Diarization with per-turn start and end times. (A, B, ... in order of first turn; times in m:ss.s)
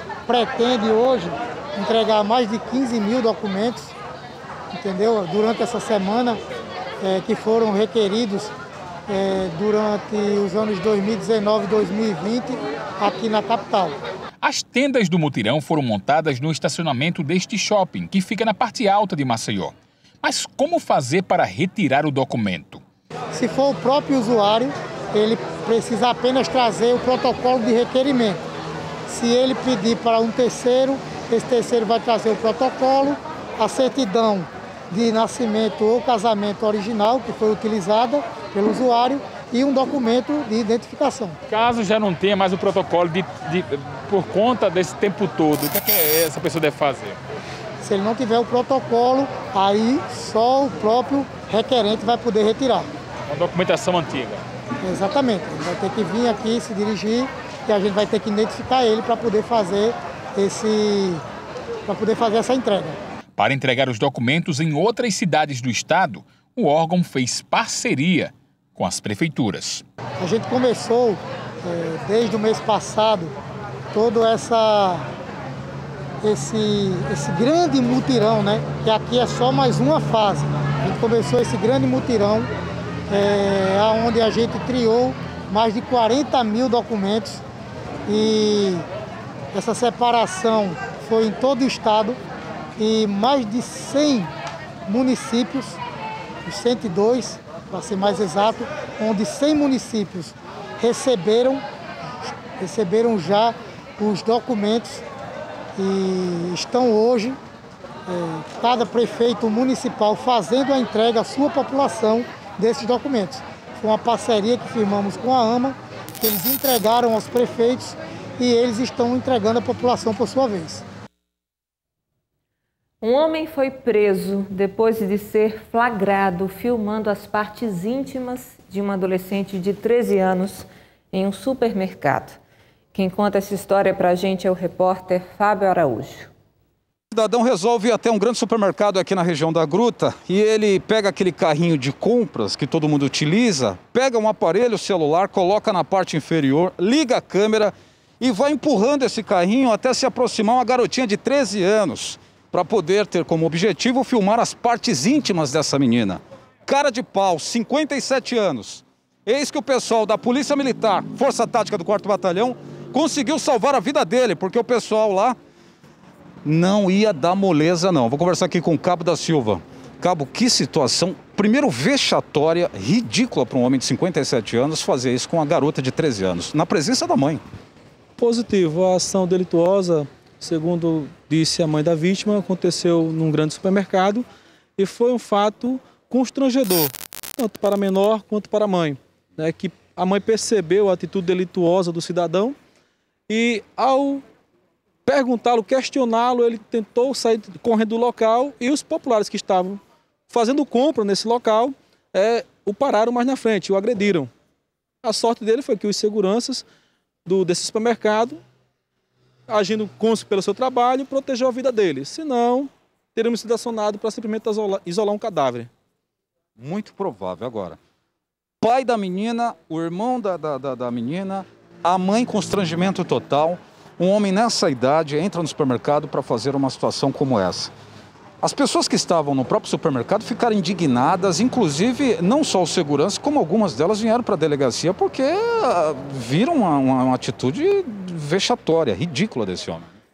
0:00.3-0:03.9 A
0:04.7-0:06.4 A
0:07.0-0:08.5 A
0:09.1-0:13.9 A
0:14.4-0:22.8 B
0:23.4-0:28.4 A
0:29.1-0:41.4 A
0:41.5-0:47.2 B
0:47.8-0:52.9 A
0:53.3-0:54.4 B
0:54.8-1:01.2 A
1:01.9-1:03.0 A
1:03.4-1:09.8 B
1:10.2-1:13.3 A
1:13.9-1:15.0 A
1:16.2-1:22.5 A
1:23.1-1:27.4 A
1:28.1-1:28.8 A
1:29.5-1:32.2 A
1:32.8-1:34.3 A
1:34.9-1:35.8 A
1:36.4-1:41.6 A
1:42.6-1:45.0 A
1:45.8-1:47.4 A
1:48.1-2:00.8 A
2:03.0-2:12.4 C
2:12.9-2:16.3 C
2:17.1-2:45.4 D
2:46.4-2:57.4 D
2:58.2-3:04.2 E
3:04.8-3:12.6 E
3:13.3-3:14.2 E
3:15.0-3:24.3 E
3:25.0-3:26.6 E
3:27.2-3:28.4 E
3:29.5-3:35.7 E
3:36.6-3:37.8 D
3:38.6-3:47.7 D
3:48.4-3:59.9 D